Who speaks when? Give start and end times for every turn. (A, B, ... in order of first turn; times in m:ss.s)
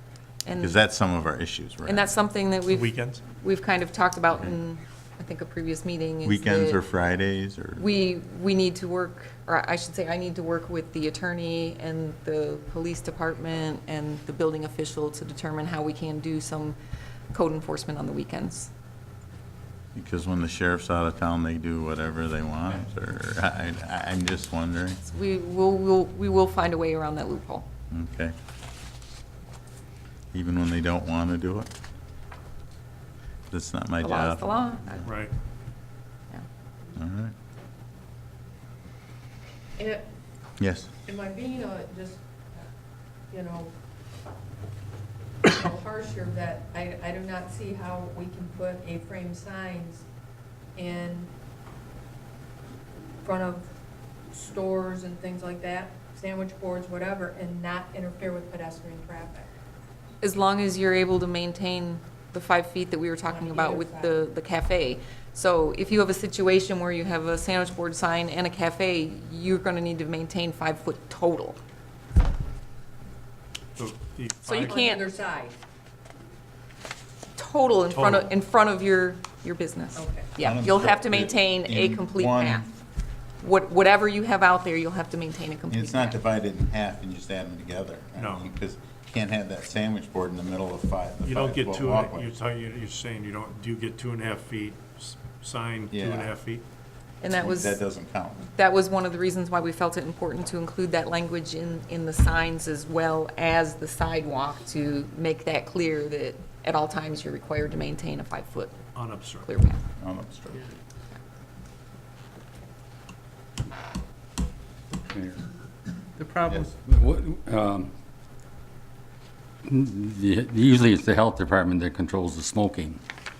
0:00.4-0:00.8 A
0:00.6-0:02.1 B
0:01.8-0:06.8 A
0:02.7-0:03.2 C
0:06.2-0:07.8 B
0:07.8-0:16.8 A
0:17.3-0:18.7 A
0:19.9-0:25.0 B
0:25.0-0:27.7 A
0:27.9-0:28.3 B
0:30.3-0:31.7 B
0:33.5-0:35.1 B
0:34.0-0:35.1 A
0:35.0-0:35.3 C
0:37.0-0:37.3 B
0:39.8-0:40.1 D
0:40.6-0:40.9 B
0:41.0-0:42.7 D
0:43.3-0:43.7 D
0:45.4-0:50.0 D
0:50.7-0:51.3 D
0:53.2-0:53.7 D
0:54.3-0:59.5 D
1:00.2-1:11.6 A
1:03.3-1:04.2 D
1:13.8-1:14.8 C
1:14.4-1:15.2 A
1:14.6-1:15.6 D
1:17.4-1:22.7 A
1:17.9-1:18.3 C
1:20.0-1:20.3 D
1:20.4-1:22.6 B
1:23.4-1:26.2 A
1:25.7-1:32.3 B
1:28.2-1:28.5 C
1:31.2-1:36.6 C
1:35.9-1:36.3 B
1:37.2-1:37.8 A
1:37.3-1:38.5 B
1:38.4-1:49.8 A
1:48.9-1:49.5 C
1:50.0-1:50.7 B
1:55.1-1:55.4 E
1:56.2-1:57.9 E
1:59.6-2:03.0 E